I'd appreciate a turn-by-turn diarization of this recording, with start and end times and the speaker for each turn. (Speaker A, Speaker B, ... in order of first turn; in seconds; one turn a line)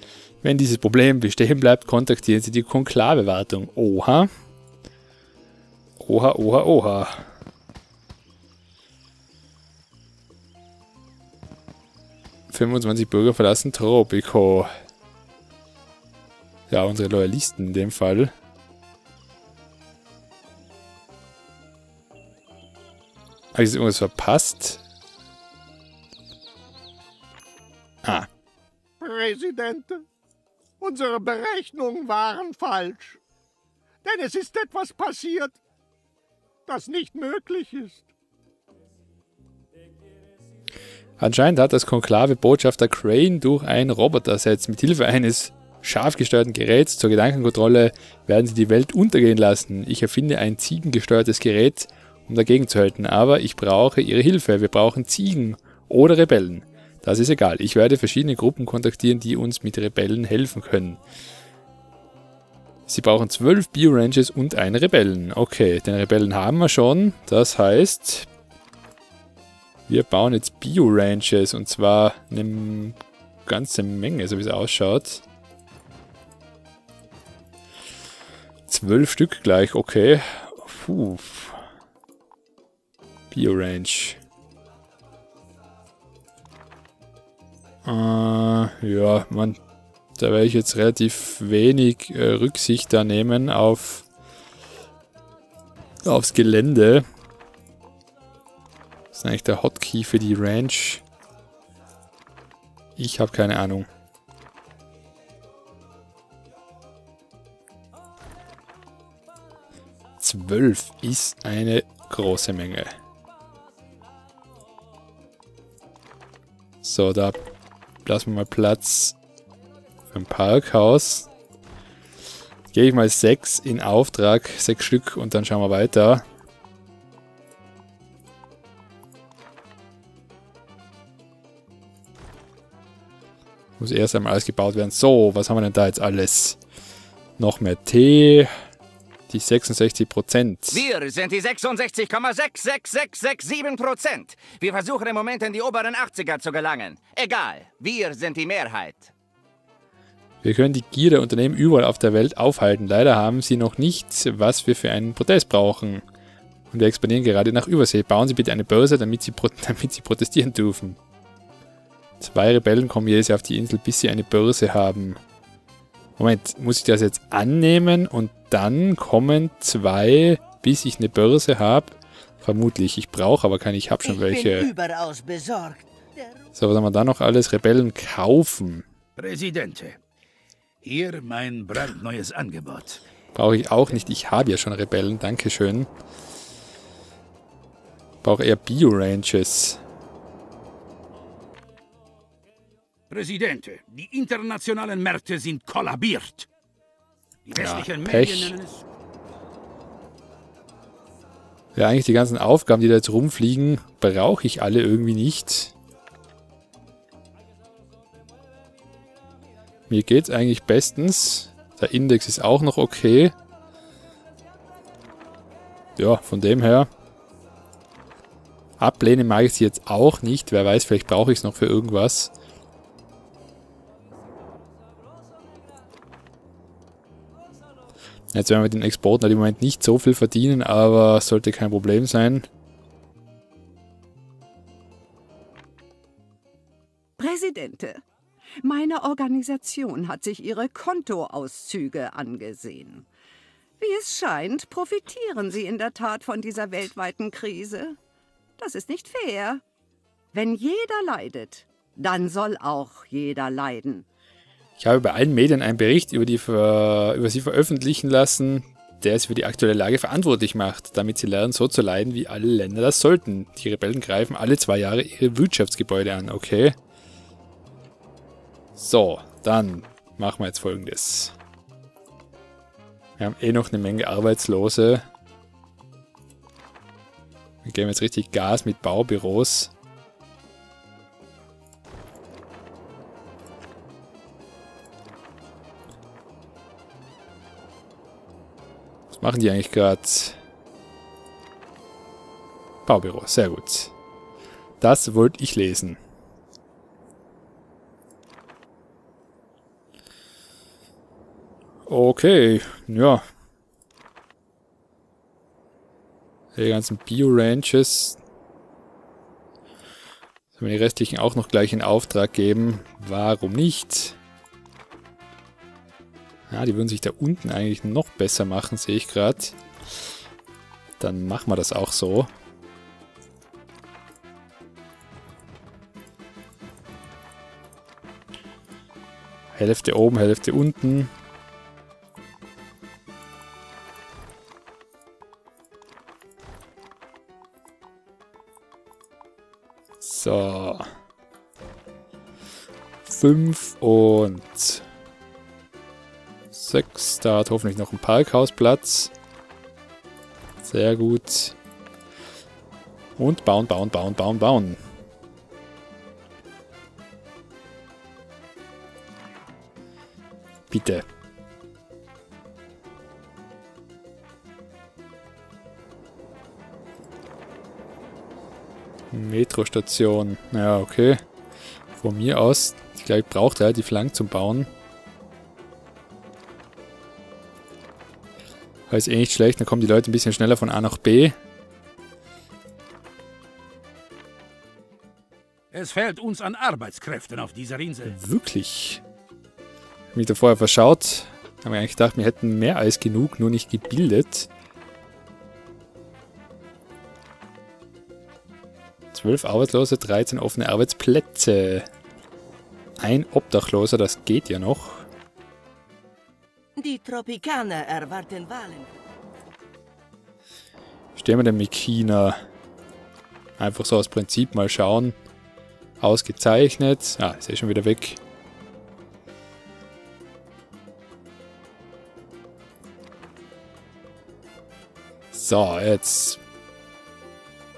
Speaker A: 0.4-4.3
Speaker A: 6.0-7.3
Speaker A: 12.5-14.7
Speaker A: 16.7-18.3
Speaker A: 23.5-24.8
Speaker B: 29.0-30.0
Speaker B: 30.8-33.2
Speaker B: 34.0-35.6
Speaker B: 36.7-38.1
Speaker A: 41.2-61.0
Speaker A: 62.9-68.3
Speaker A: 69.9-75.2
Speaker A: 78.7-81.6
Speaker A: 83.3-84.2
Speaker A: 87.8-89.6
Speaker A: 90.2-94.0
Speaker A: 96.0-97.0
Speaker A: 99.1-101.0
Speaker A: 103.0-103.9
Speaker A: 110.2-113.0
Speaker A: 116.8-117.4
Speaker A: 118.0-119.2
Speaker A: 120.1-121.3
Speaker A: 122.7-126.2
Speaker A: 133.8-136.6
Speaker A: 137.4-138.5
Speaker A: 139.3-140.8
Speaker C: 140.7-149.1
Speaker A: 150.4-156.0
Speaker A: 156.7-161.0
Speaker A: 162.2-165.2
Speaker A: 166.2-174.7
Speaker D: 174.0-176.5
Speaker A: 176.6-178.8
Speaker E: 179.2-180.0
Speaker E: 180.8-183.0
Speaker A: 183.3-185.9
Speaker A: 188.2-189.8
Speaker E: 193.1-196.5
Speaker E: 197.5-198.8
Speaker A: 197.6-198.5
Speaker A: 201.7-205.7
Speaker A: 209.9-213.3
Speaker A: 216.0-216.9
Speaker A: 218.8-222.3
Speaker A: 228.3-232.5
Speaker F: 237.2-238.0
Speaker F: 238.6-243.1
Speaker F: 243.8-248.0
Speaker F: 248.6-249.6
Speaker F: 250.3-254.1
Speaker A: 254.8-266.8
Speaker A: 268.8-271.3
Speaker A: 273.2-275.0
Speaker A: 277.6-279.7
Speaker A: 289.1-290.4
Speaker A: 292.9-293.9
Speaker A: 294.8-296.0
Speaker A: 301.9-303.2
Speaker A: 306.5-308.2
Speaker A: 310.6-314.1
Speaker A: 316.5-319.6
Speaker A: 321.0-322.3
Speaker A: 329.5-331.1
Speaker A: 340.0-340.9
Speaker A: 343.1-344.8
Speaker A: 346.5-349.1
Speaker A: 350.6-351.6
Speaker A: 353.2-354.8
Speaker A: 360.7-361.0
Speaker A: 369.1-371.2
Speaker A: 372.0-374.7
Speaker A: 378.9-381.4
Speaker E: 385.7-388.1
Speaker A: 388.0-389.0
Speaker A: 390.1-394.5
Speaker A: 399.1-401.9
Speaker A: 403.0-405.1
Speaker D: 406.8-408.9
Speaker A: 411.1-412.4
Speaker A: 413.6-415.2
Speaker A: 416.0-418.2
Speaker A: 425.3-426.4